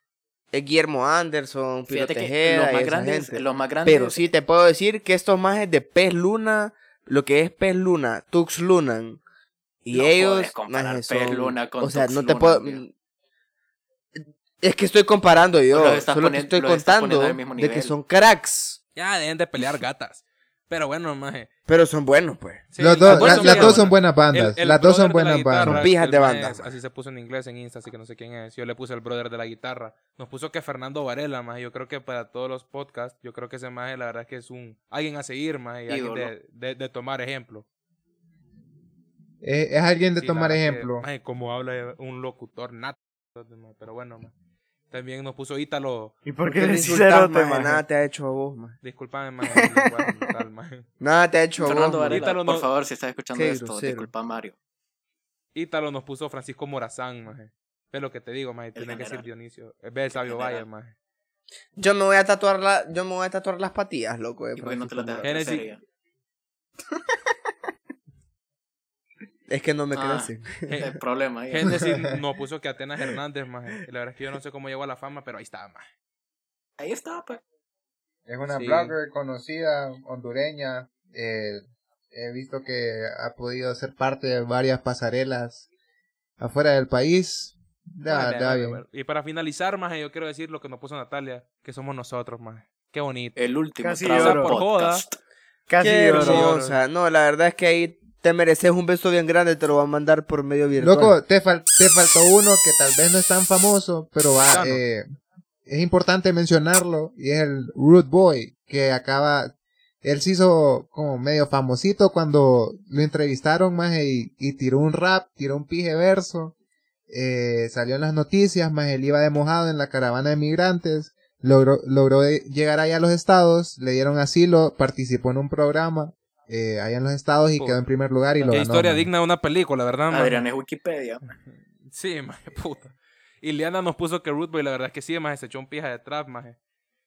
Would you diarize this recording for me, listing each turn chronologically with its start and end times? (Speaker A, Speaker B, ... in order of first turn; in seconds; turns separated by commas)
Speaker A: 0.5-9.2, Speaker B: 1.9-4.3, Speaker A: 9.8-12.9, Speaker B: 9.9-12.8, Speaker A: 14.2-18.8, Speaker B: 15.7-17.9, Speaker C: 19.0-21.5, Speaker A: 21.7-23.9, Speaker C: 22.7-37.6, Speaker D: 22.8-25.9, Speaker A: 25.6-26.7, Speaker B: 35.9-36.3, Speaker D: 39.4-41.0, Speaker C: 40.2-44.3, Speaker C: 44.9-46.2, Speaker E: 46.2-47.8, Speaker A: 46.5-48.8, Speaker C: 48.8-50.9, Speaker E: 49.4-50.3, Speaker A: 51.0-52.3, Speaker B: 51.6-54.6, Speaker C: 52.1-52.7, Speaker A: 53.3-54.1, Speaker C: 55.5-60.9, Speaker B: 58.8-59.3, Speaker B: 60.1-60.6, Speaker A: 61.8-65.3, Speaker B: 64.6-65.8, Speaker C: 65.2-65.7, Speaker A: 69.5-70.9, Speaker B: 69.9-71.8, Speaker C: 70.7-71.0, Speaker C: 71.5-75.9, Speaker B: 76.8-77.4, Speaker D: 78.3-85.7, Speaker C: 78.5-79.0, Speaker D: 86.4-88.8, Speaker C: 88.1-93.4, Speaker B: 93.4-95.2, Speaker E: 93.8-94.6, Speaker C: 94.1-95.0, Speaker E: 95.7-96.5, Speaker A: 95.8-101.2, Speaker C: 96.1-96.8, Speaker D: 100.8-105.1, Speaker C: 104.5-104.8, Speaker D: 105.7-116.5, Speaker D: 117.1-129.1, Speaker C: 128.4-130.5, Speaker B: 130.1-131.2, Speaker C: 131.3-136.6